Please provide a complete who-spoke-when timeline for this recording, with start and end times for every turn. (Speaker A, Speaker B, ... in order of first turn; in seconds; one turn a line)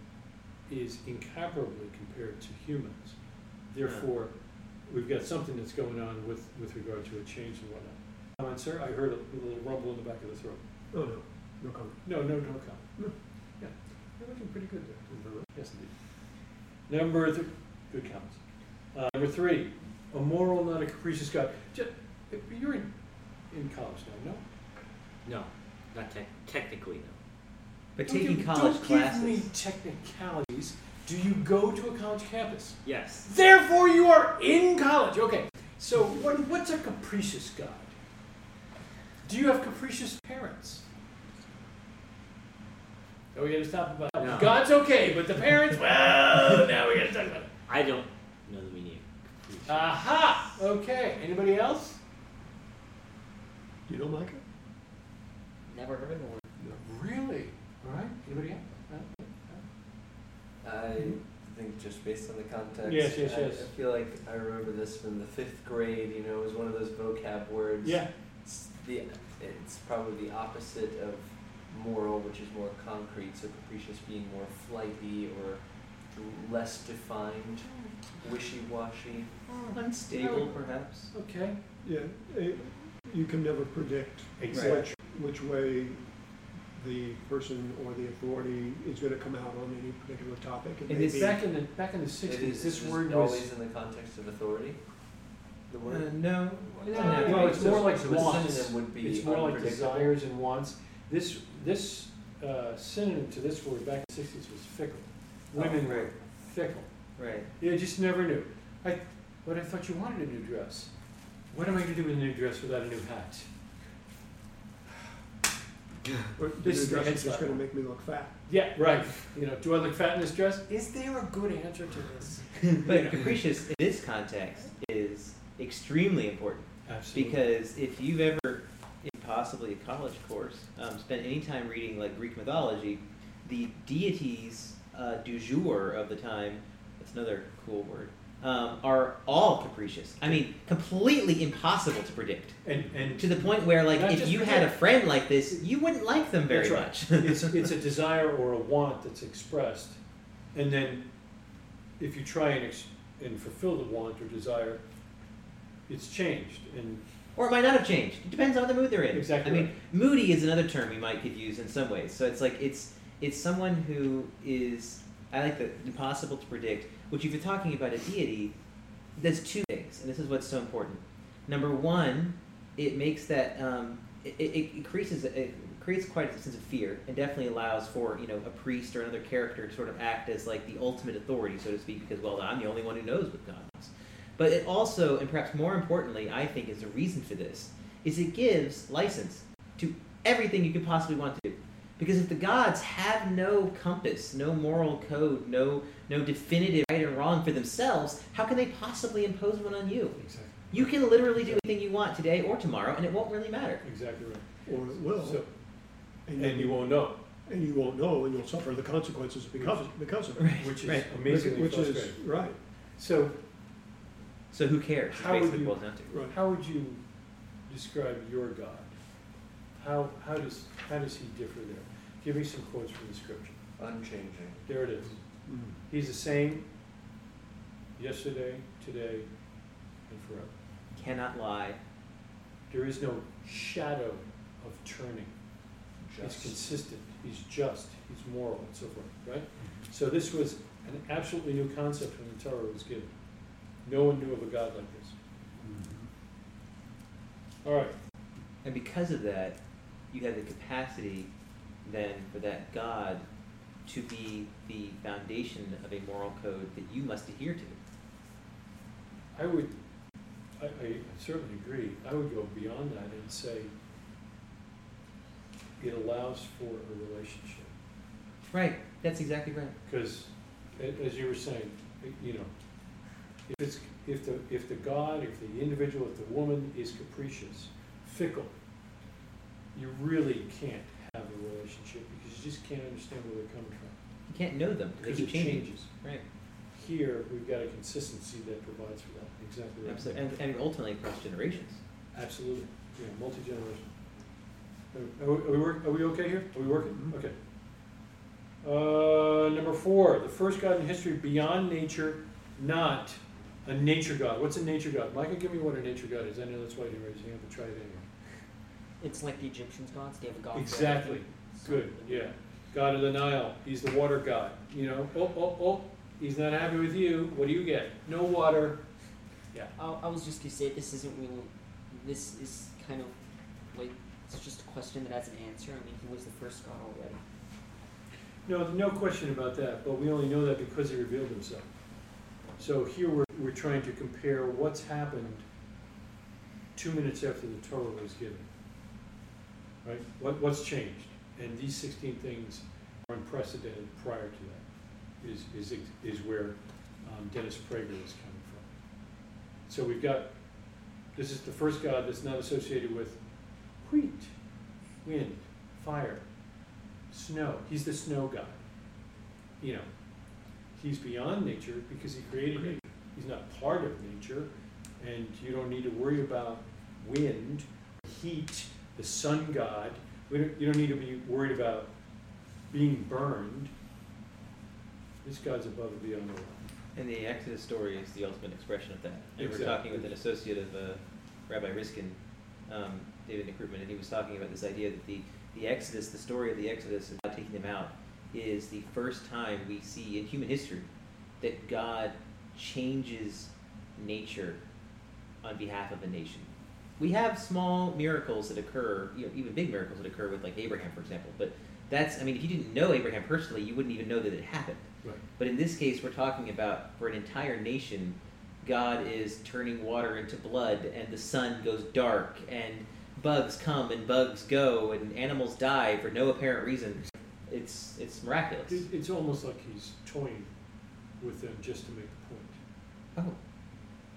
Speaker A: 0.7-10.6
Speaker B: 10.9-12.4
Speaker A: 12.0-24.4
Speaker B: 15.1-15.5
Speaker C: 25.2-27.2
Speaker D: 27.9-29.5
Speaker A: 28.0-37.9
Speaker C: 32.8-33.3
Speaker A: 39.2-40.8
Speaker A: 43.3-47.5
Speaker C: 44.1-44.5
Speaker C: 47.7-49.9
Speaker A: 49.6-52.0
Speaker B: 53.9-54.4
Speaker E: 55.6-56.5
Speaker A: 56.8-59.6
Speaker F: 60.6-79.5
Speaker A: 62.8-63.7
Speaker A: 67.8-68.1
Speaker A: 79.5-81.6
Speaker D: 79.6-81.1
Speaker B: 81.8-91.4
Speaker A: 84.4-85.0
Speaker D: 84.5-84.8
Speaker D: 90.9-91.4
Speaker A: 91.1-93.5
Speaker F: 92.2-100.2
Speaker D: 95.8-98.0
Speaker A: 96.9-113.5
Speaker D: 105.5-106.2
Speaker D: 107.2-107.5
Speaker B: 116.3-118.4
Speaker A: 116.6-117.7
Speaker A: 118.4-123.3
Speaker D: 122.8-142.6
Speaker A: 126.8-127.4
Speaker A: 142.6-144.7
Speaker D: 143.2-147.7
Speaker A: 146.5-150.0
Speaker A: 150.5-151.1
Speaker A: 152.0-154.8
Speaker A: 155.9-157.0
Speaker D: 157.3-168.5
Speaker A: 159.1-159.7
Speaker D: 169.2-203.8
Speaker A: 200.2-201.6
Speaker A: 203.8-207.2
Speaker B: 204.7-212.6
Speaker A: 209.6-213.4
Speaker D: 210.4-211.1
Speaker D: 214.5-216.1
Speaker A: 215.1-219.0
Speaker B: 216.1-216.3
Speaker A: 219.8-223.6
Speaker F: 223.8-224.6
Speaker A: 224.6-225.2
Speaker B: 225.4-225.8
Speaker A: 225.9-226.7
Speaker A: 228.0-229.5
Speaker A: 230.1-230.5
Speaker D: 230.9-231.8
Speaker A: 232.7-235.4
Speaker F: 236.0-236.7
Speaker A: 236.2-245.2
Speaker B: 245.6-246.1
Speaker A: 247.6-248.0
Speaker D: 248.6-251.3
Speaker D: 251.8-253.2
Speaker D: 253.8-257.8
Speaker A: 259.3-259.8
Speaker A: 260.6-263.7
Speaker A: 265.8-267.7
Speaker D: 268.5-269.8
Speaker A: 269.8-278.5
Speaker A: 279.7-284.0
Speaker D: 284.3-286.2
Speaker A: 285.0-285.9
Speaker A: 286.7-290.3
Speaker D: 289.8-291.8
Speaker A: 292.1-294.1
Speaker A: 294.9-297.4
Speaker B: 296.6-297.1
Speaker A: 298.6-308.3
Speaker E: 309.0-312.4
Speaker A: 310.5-318.9
Speaker E: 319.8-327.2
Speaker A: 328.4-335.4
Speaker A: 336.8-338.5
Speaker A: 339.8-349.1
Speaker A: 349.6-354.4
Speaker A: 355.0-356.5
Speaker A: 357.1-359.1
Speaker A: 359.6-372.0
Speaker A: 372.7-373.7
Speaker A: 375.2-376.6
Speaker D: 376.9-390.9
Speaker A: 379.4-380.1
Speaker D: 391.4-394.6
Speaker D: 395.4-418.9
Speaker A: 418.7-420.6
Speaker A: 421.1-422.6
Speaker D: 423.1-423.7